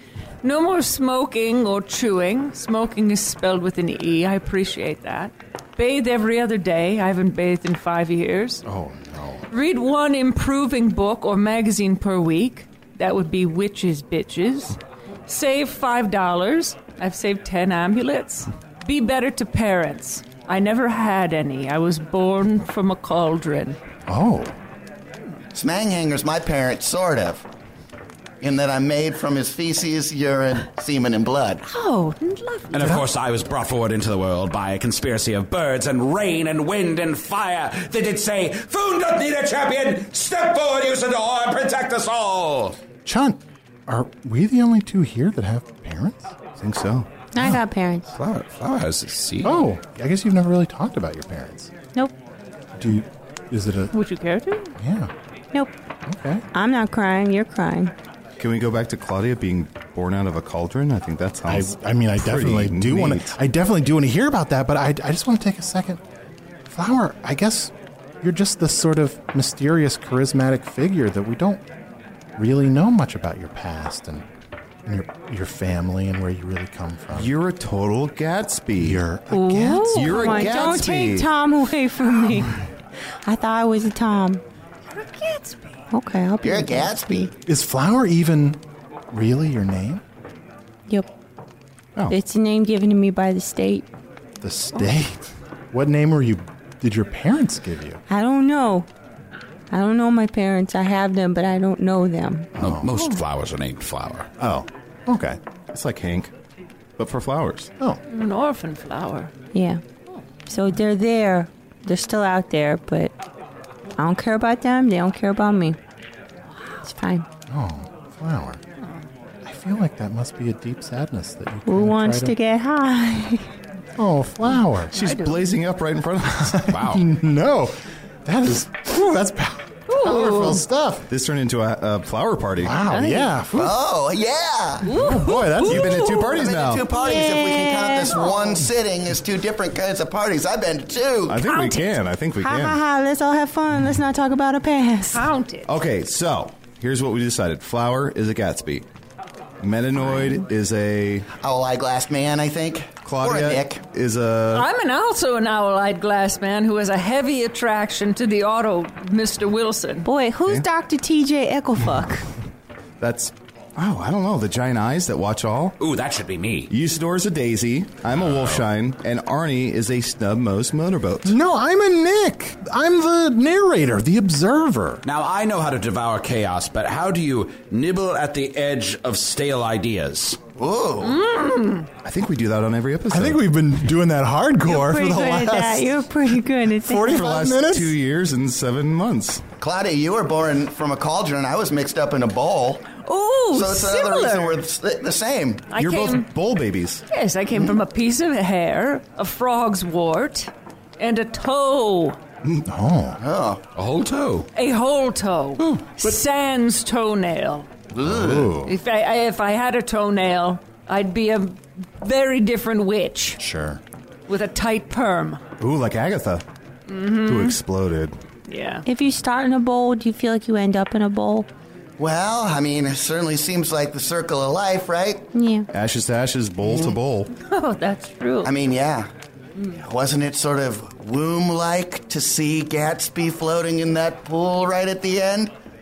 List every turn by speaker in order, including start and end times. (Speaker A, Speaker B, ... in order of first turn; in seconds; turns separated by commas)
Speaker A: 0.4-8.6, Speaker B: 8.6-9.4, Speaker A: 9.5-23.8, Speaker B: 24.1-24.5, Speaker C: 25.5-27.4, Speaker C: 28.4-31.6, Speaker A: 31.6-32.7, Speaker D: 32.7-42.8, Speaker B: 32.8-33.0, Speaker B: 43.0-46.3, Speaker E: 46.6-47.1, Speaker F: 47.3-48.1, Speaker D: 48.2-49.6, Speaker B: 49.4-51.7, Speaker B: 52.8-53.9, Speaker A: 53.9-54.7, Speaker B: 54.8-55.1, Speaker B: 56.1-56.4, Speaker F: 56.5-57.9, Speaker E: 58.4-63.3, Speaker B: 61.5-66.0, Speaker B: 66.7-71.6, Speaker B: 72.4-74.2, Speaker B: 74.8-77.3, Speaker E: 77.1-79.0, Speaker B: 78.8-80.7, Speaker F: 79.3-82.5, Speaker E: 79.8-81.3, Speaker F: 83.2-84.4, Speaker A: 84.9-85.8, Speaker F: 85.9-87.3, Speaker C: 86.4-87.3, Speaker B: 87.5-88.6, Speaker B: 89.1-90.0, Speaker F: 92.1-93.8, Speaker B: 94.4-98.0, Speaker F: 98.1-98.9, Speaker F: 99.7-102.5, Speaker B: 102.5-102.9, Speaker D: 102.6-104.3, Speaker B: 104.4-105.4, Speaker E: 105.7-106.3, Speaker E: 107.0-107.7, Speaker A: 108.1-109.3, Speaker F: 109.5-109.8, Speaker F: 110.5-113.1, Speaker F: 114.0-115.8, Speaker F: 116.9-117.3, Speaker B: 117.5-118.6, Speaker B: 119.4-122.3, Speaker F: 121.7-123.4, Speaker B: 124.0-124.9, Speaker A: 124.9-125.5, Speaker E: 124.9-126.6, Speaker B: 126.3-131.0, Speaker D: 126.7-127.0, Speaker A: 129.9-130.6, Speaker E: 131.1-132.8, Speaker B: 132.6-133.8, Speaker A: 132.9-133.3, Speaker C: 133.6-134.9, Speaker A: 134.8-136.4, Speaker B: 134.9-135.9, Speaker E: 135.6-136.9, Speaker C: 136.2-141.4, Speaker F: 136.9-138.5, Speaker E: 141.3-142.8, Speaker F: 141.5-145.3, Speaker A: 145.1-145.7, Speaker E: 145.7-148.8, Speaker E: 149.6-151.2, Speaker C: 151.4-153.8, Speaker E: 153.0-154.7, Speaker A: 154.5-160.1, Speaker F: 160.0-162.2, Speaker E: 163.0-165.8, Speaker D: 165.8-166.7, Speaker E: 166.7-171.3, Speaker D: 168.1-168.6, Speaker B: 171.2-175.0, Speaker D: 175.0-180.4, Speaker C: 180.6-181.2, Speaker A: 181.0-181.9, Speaker E: 182.0-183.4, Speaker B: 183.1-186.1, Speaker F: 184.7-187.2, Speaker B: 186.7-187.9, Speaker E: 187.1-189.4, Speaker C: 189.6-192.9, Speaker A: 193.0-194.6, Speaker C: 193.5-195.7, Speaker A: 195.7-196.3, Speaker E: 195.7-197.0, Speaker A: 197.1-202.2, Speaker B: 202.7-203.2, Speaker C: 203.2-203.6, Speaker D: 203.8-204.5, Speaker A: 204.5-207.7, Speaker C: 207.9-208.5, Speaker B: 208.0-208.7, Speaker A: 208.6-213.4, Speaker B: 213.4-213.8, Speaker A: 214.3-215.4, Speaker E: 215.6-216.4, Speaker A: 216.9-217.6, Speaker E: 217.2-218.1, Speaker A: 218.5-218.8, Speaker F: 218.8-221.5, Speaker C: 222.0-225.2, Speaker F: 225.3-225.7, Speaker E: 225.7-227.3, Speaker C: 226.6-227.0, Speaker A: 227.4-228.5, Speaker C: 228.4-229.1, Speaker C: 229.8-235.5